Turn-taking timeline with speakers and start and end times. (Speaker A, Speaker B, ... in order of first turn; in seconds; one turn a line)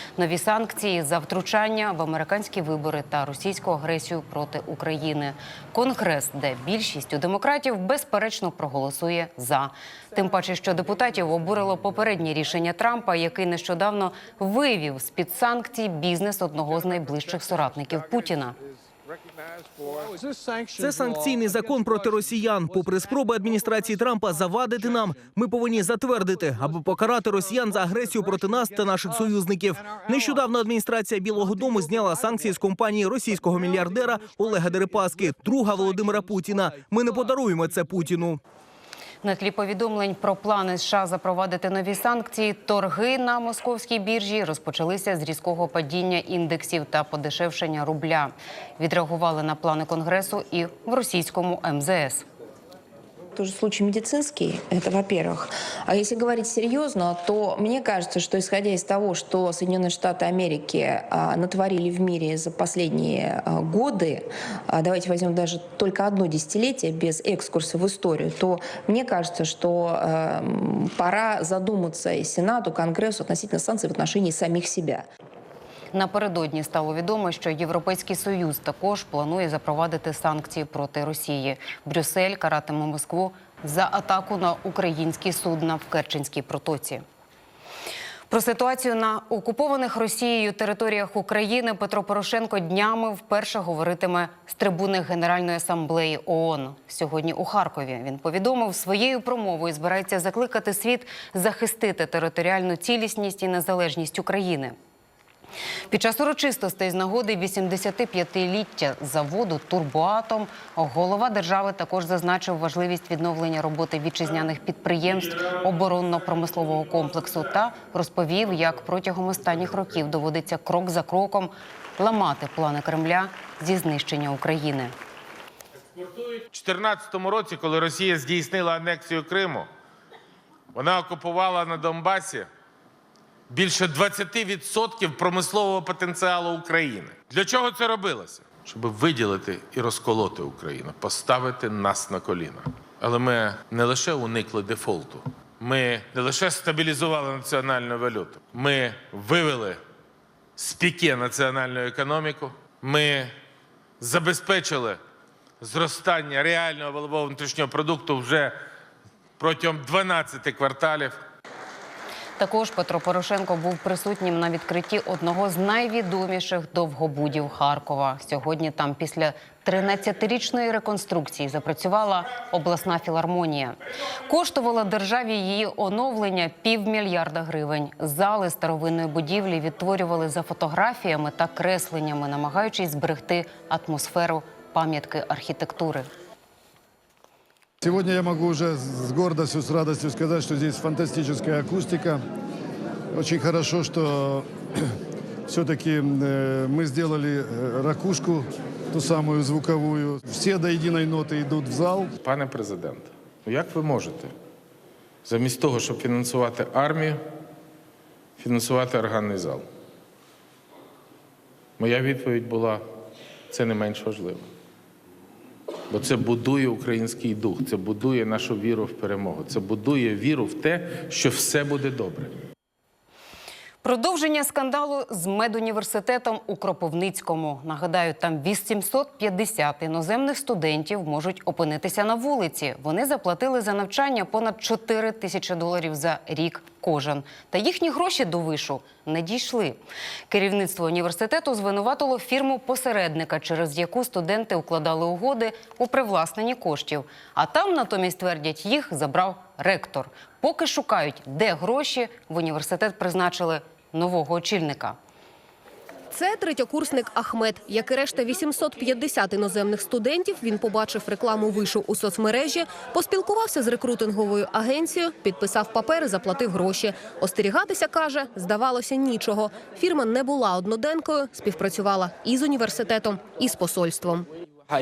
Speaker A: 0.2-18.6
Speaker B: 20.8-38.4
Speaker A: 39.2-52.2
Speaker C: 53.4-75.1
Speaker A: 75.9-87.0
Speaker A: 88.3-104.8
Speaker A: 105.9-124.9
Speaker D: 126.0-129.7
Speaker D: 130.7-132.5
Speaker D: 133.5-149.8
Speaker D: 150.6-153.3
Speaker D: 154.0-155.0
Speaker D: 155.6-158.6
Speaker D: 159.4-161.2
Speaker A: 162.4-186.1
Speaker E: 187.8-192.2
Speaker E: 193.2-194.4
Speaker E: 195.5-198.4
Speaker E: 198.9-202.1
Speaker D: 202.2-204.3
Speaker D: 205.2-207.2
Speaker D: 208.4-209.7
Speaker D: 211.8-212.8
Speaker D: 213.5-214.5
Speaker D: 215.9-222.3
Speaker A: 223.8-255.0
Speaker F: 256.1-274.3